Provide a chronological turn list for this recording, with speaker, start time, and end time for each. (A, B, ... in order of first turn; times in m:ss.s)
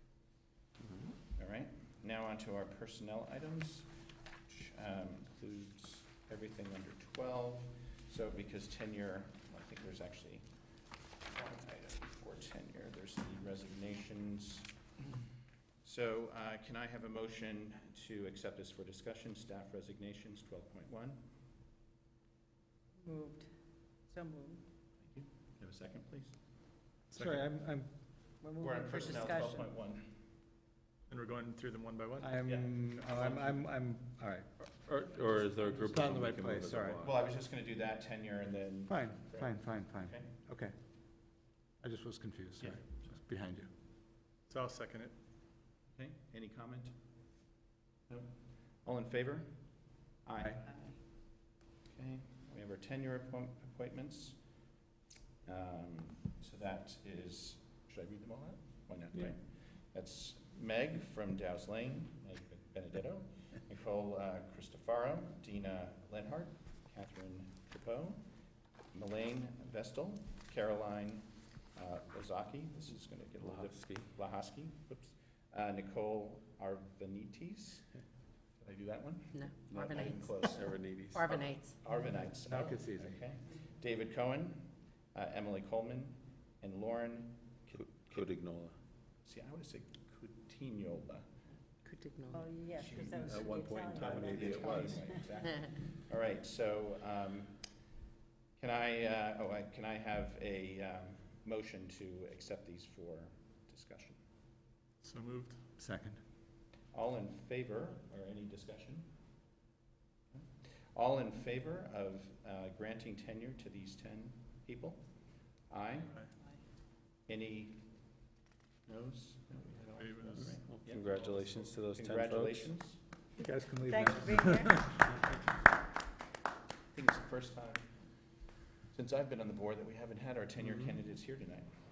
0:01.4-0:03.9 A
0:04.5-0:10.5 A
0:11.3-0:14.7 A
0:15.8-0:21.2 A
0:23.0-0:23.5 B
0:24.1-0:24.6 B
0:25.0-0:26.4 A
0:27.1-0:27.4 C
0:27.2-0:27.9 D
0:28.4-0:29.7 B
0:28.6-0:30.2 A
0:31.1-0:32.3 C
0:32.2-0:34.7 D
0:32.5-0:33.6 A
0:34.8-0:37.2 E
0:35.8-0:37.1 D
0:37.0-0:40.3 A
0:38.9-0:40.8 D
0:41.8-0:43.7 D
0:42.6-0:43.2 A
0:44.5-0:45.1 C
0:45.9-0:47.0 A
0:48.1-0:49.6 A
0:50.2-0:51.0 A
0:51.9-0:54.4 A
0:55.4-1:08.2 A
1:08.9-1:17.9 A
1:13.4-1:14.1 E
1:18.6-1:20.7 A
1:19.3-1:20.5 F
1:19.7-1:21.4 E
1:21.1-1:21.8 F
1:21.3-1:28.3 A
1:22.3-1:23.2 D
1:27.7-1:28.8 E
1:29.2-1:31.3 A
1:31.8-1:32.5 F
1:32.3-1:35.2 B
1:32.8-1:37.6 A
1:33.1-1:35.1 E
1:38.6-1:44.2 A
1:45.0-1:45.6 C
1:45.8-1:46.2 D
1:46.9-1:49.1 A
1:50.3-1:55.0 A
1:55.7-1:56.2 A
1:57.3-1:57.9 A
1:58.9-2:03.0 A
2:00.0-2:00.6 C
2:00.6-2:02.7 E
2:03.4-2:05.0 D
2:03.9-2:04.9 B
2:06.9-2:08.0 A
2:08.9-2:11.7 A
2:10.7-2:10.9 E